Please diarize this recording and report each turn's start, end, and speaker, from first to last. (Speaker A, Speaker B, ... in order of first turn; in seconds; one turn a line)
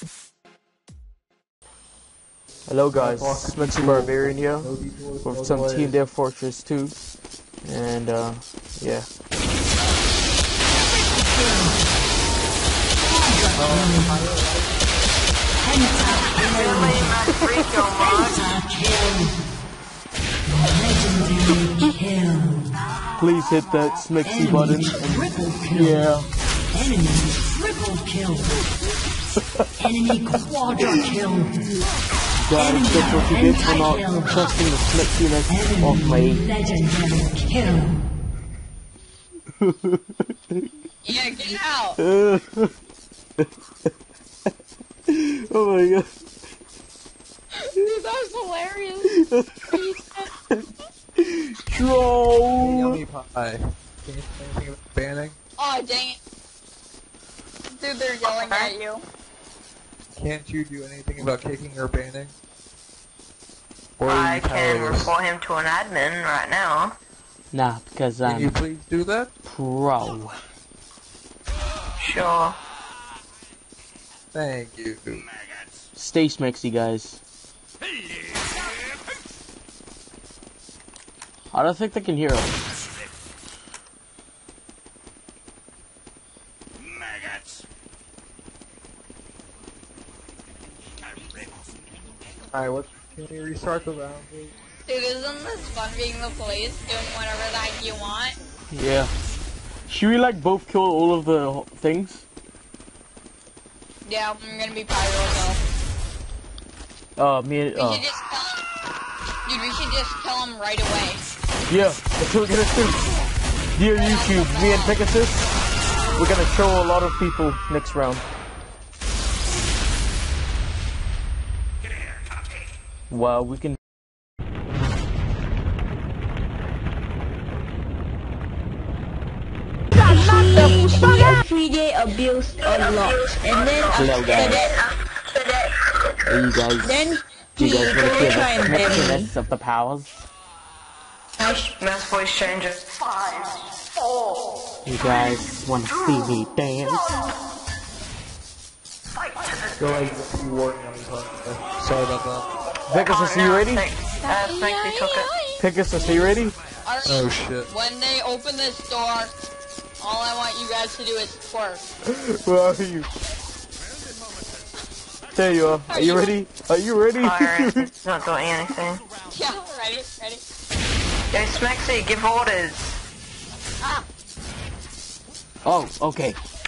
Speaker A: 2.7-7.0
Speaker B: 2.9-6.0
Speaker A: 7.6-9.1
Speaker B: 13.5-14.9
Speaker C: 13.7-14.1
Speaker C: 15.7-17.1
Speaker D: 16.4-18.6
Speaker C: 18.1-19.3
Speaker C: 20.7-22.7
Speaker A: 23.2-26.3
Speaker C: 24.2-26.0
Speaker C: 26.7-28.6
Speaker C: 29.8-31.6
Speaker A: 32.4-36.5
Speaker C: 32.6-34.3
Speaker C: 35.5-38.0
Speaker A: 39.6-40.6
Speaker E: 41.0-42.0
Speaker A: 42.0-42.7
Speaker A: 45.1-46.1
Speaker E: 47.6-49.1
Speaker A: 49.2-49.6
Speaker E: 49.7-50.3
Speaker A: 51.2-53.0
Speaker B: 52.6-55.4
Speaker E: 55.6-56.2
Speaker E: 57.8-59.0
Speaker D: 58.2-58.7
Speaker B: 60.2-62.3
Speaker B: 64.0-65.2
Speaker D: 64.1-67.0
Speaker A: 67.5-68.6
Speaker B: 68.2-69.3
Speaker A: 69.5-70.4
Speaker D: 72.0-72.6
Speaker B: 74.3-75.3
Speaker A: 75.9-77.2
Speaker A: 81.5-82.6
Speaker B: 92.5-94.5
Speaker E: 94.9-98.4
Speaker A: 98.7-99.1
Speaker A: 99.9-102.2
Speaker E: 104.0-105.6
Speaker A: 107.2-108.0
Speaker E: 107.8-108.6
Speaker E: 109.5-111.2
Speaker A: 111.7-113.0
Speaker A: 113.8-115.5
Speaker E: 114.0-115.0
Speaker A: 116.2-118.2
Speaker A: 123.1-123.8
Speaker F: 129.9-134.9
Speaker D: 133.3-134.8
Speaker A: 133.9-134.6
Speaker F: 135.5-135.7
Speaker A: 136.3-137.0
Speaker F: 136.8-139.3
Speaker A: 137.6-140.2
Speaker F: 141.4-141.7
Speaker D: 141.8-143.0
Speaker A: 144.8-147.1
Speaker B: 149.8-152.5
Speaker A: 152.9-153.9
Speaker D: 152.9-155.3
Speaker C: 154.2-155.6
Speaker A: 155.6-156.6
Speaker E: 156.8-159.3
Speaker B: 157.1-157.7
Speaker E: 160.0-161.8
Speaker A: 162.0-163.1
Speaker A: 165.3-167.9
Speaker E: 165.9-166.3
Speaker D: 167.2-169.0
Speaker E: 169.3-170.4
Speaker D: 171.3-173.0
Speaker A: 175.7-176.4